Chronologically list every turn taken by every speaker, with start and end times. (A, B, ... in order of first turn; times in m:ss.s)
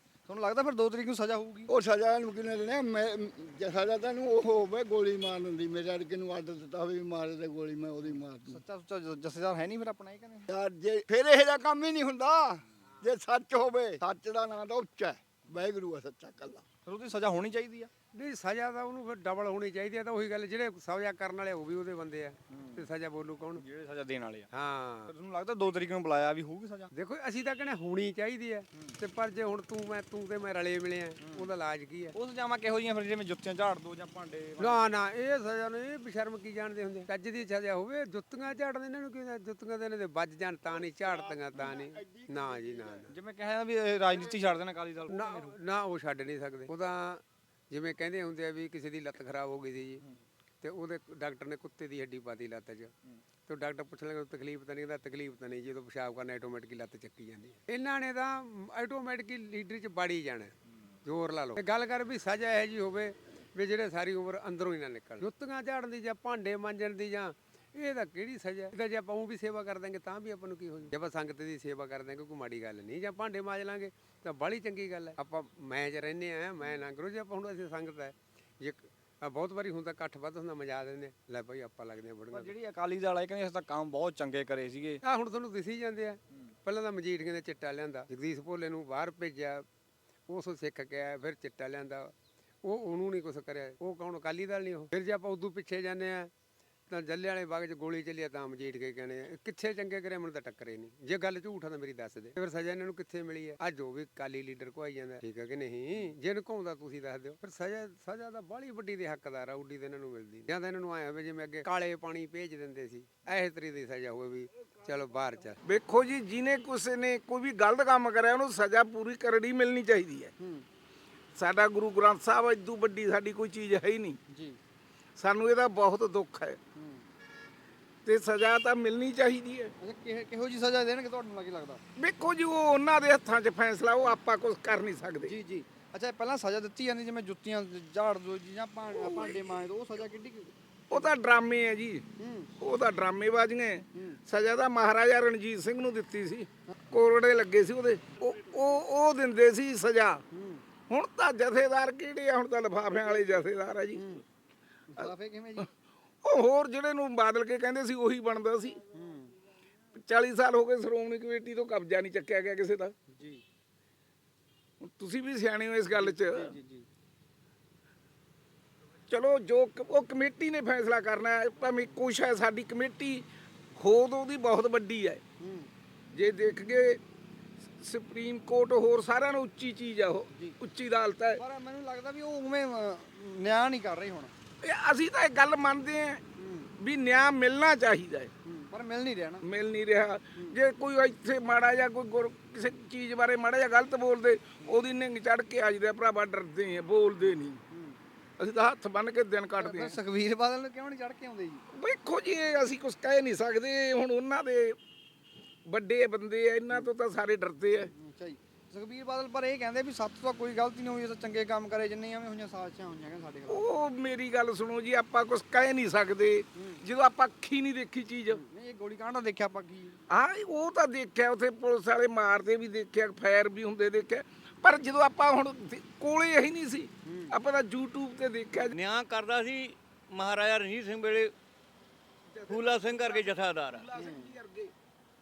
0:00.3-0:01.7 A
0:01.7-0:08.6 B
0:08.0-0:10.5 A
0:10.5-0:16.6 B
0:16.8-0:17.9 A
0:18.1-0:23.6 C
0:22.5-0:22.9 A
0:23.5-0:24.5 A
0:24.5-0:25.1 C
0:25.1-0:26.9 A
0:26.9-0:32.1 C
0:31.2-0:31.5 A
0:32.1-0:34.9 A
0:34.6-0:43.1 C
0:40.6-0:43.1 B
0:43.1-0:45.5 A
0:45.1-0:50.0 C
0:50.6-0:52.9 C
0:53.4-1:00.5 C
1:01.0-1:22.5 C
1:22.3-1:25.0 A
1:25.0-1:29.6 C
1:30.3-1:36.3 C
1:36.9-1:55.6 C
1:55.6-2:00.3 D
2:00.4-2:00.6 A
2:01.4-2:04.2 D
2:04.3-2:04.6 A
2:05.2-2:06.6 D
2:06.8-2:07.1 A
2:08.0-2:09.7 D
2:09.8-2:11.8 A
2:12.0-2:15.3 D
2:15.2-2:21.0 A
2:19.0-2:19.3 D
2:20.9-2:22.0 D
2:22.2-2:22.5 A
2:22.6-2:30.2 D
2:30.9-2:34.0 D
2:34.9-2:35.7 A
2:36.2-2:38.8 D
2:38.9-2:39.3 A
2:39.9-2:42.9 D
2:43.1-2:43.4 A
2:44.8-2:46.5 D
2:46.0-2:46.8 A
2:49.1-2:55.2 D
2:55.4-2:55.7 A
2:56.1-2:57.0 D
2:57.8-3:01.4 D
3:01.4-3:04.3 A
3:04.6-3:06.2 D
3:06.4-3:06.7 A
3:06.8-3:08.3 D
3:08.4-3:09.4 A
3:09.4-3:17.6 D
3:17.7-3:18.0 A
3:18.4-3:20.0 D
3:19.6-3:21.6 A
3:21.7-3:24.8 D
3:25.7-3:27.9 D
3:27.9-3:33.7 A
3:33.5-3:38.4 D
3:36.6-3:36.8 A
3:38.3-3:40.0 A
3:40.1-3:48.7 D
3:47.0-3:47.3 A
3:48.7-3:51.3 E
3:52.3-3:54.7 D
3:52.5-3:53.8 E
3:53.9-3:54.3 A